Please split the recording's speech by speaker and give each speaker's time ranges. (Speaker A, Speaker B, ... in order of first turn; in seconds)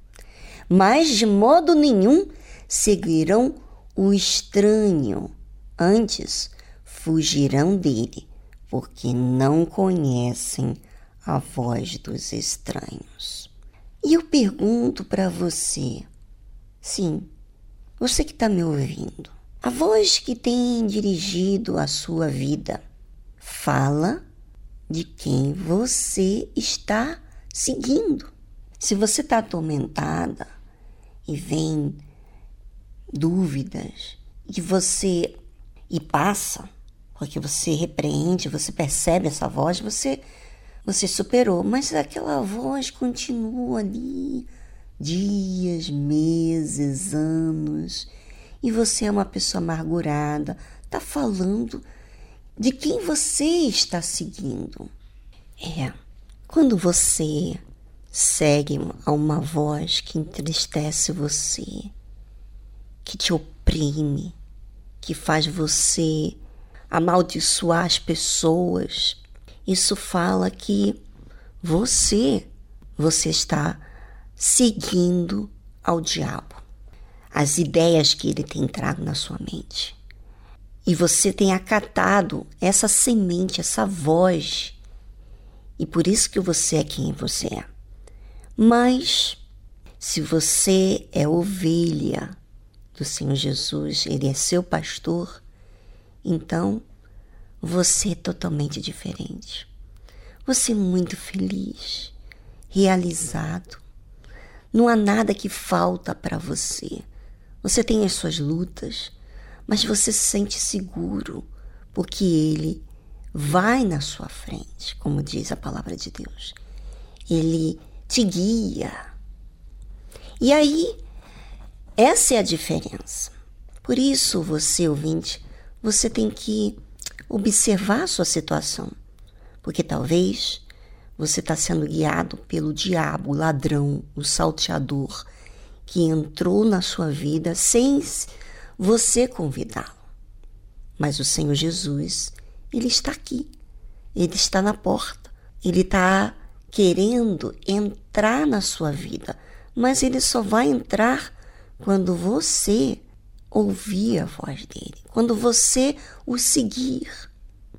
Speaker A: 0.7-13.5, 14.0-16.1, 16.8-17.3, 18.0-22.8, 23.4-24.2, 24.9-30.5, 31.3-32.0, 33.1-35.4, 35.9-40.2, 40.9-44.5, 45.0-48.1, 48.6-51.9, 52.6-54.9, 55.6-56.0, 56.5-57.6, 58.1-61.9, 63.0-64.3, 65.0-66.4, 66.9-71.0, 71.6-73.8, 74.4-76.6, 77.3-80.0, 80.8-84.8, 85.8-87.7, 88.6-89.4, 90.0-92.4, 93.0-95.4, 96.2-96.8, 97.6-99.7, 100.5-102.1, 102.7-103.8, 104.7-107.0, 107.6-109.1, 109.7-112.8, 113.3-116.6, 117.3-119.0, 120.4-121.0, 122.0-123.3, 123.8-126.8, 127.3-128.9, 129.6-130.6, 131.2-135.3, 135.9-140.0, 141.0-143.5, 144.2-153.0, 153.5-157.3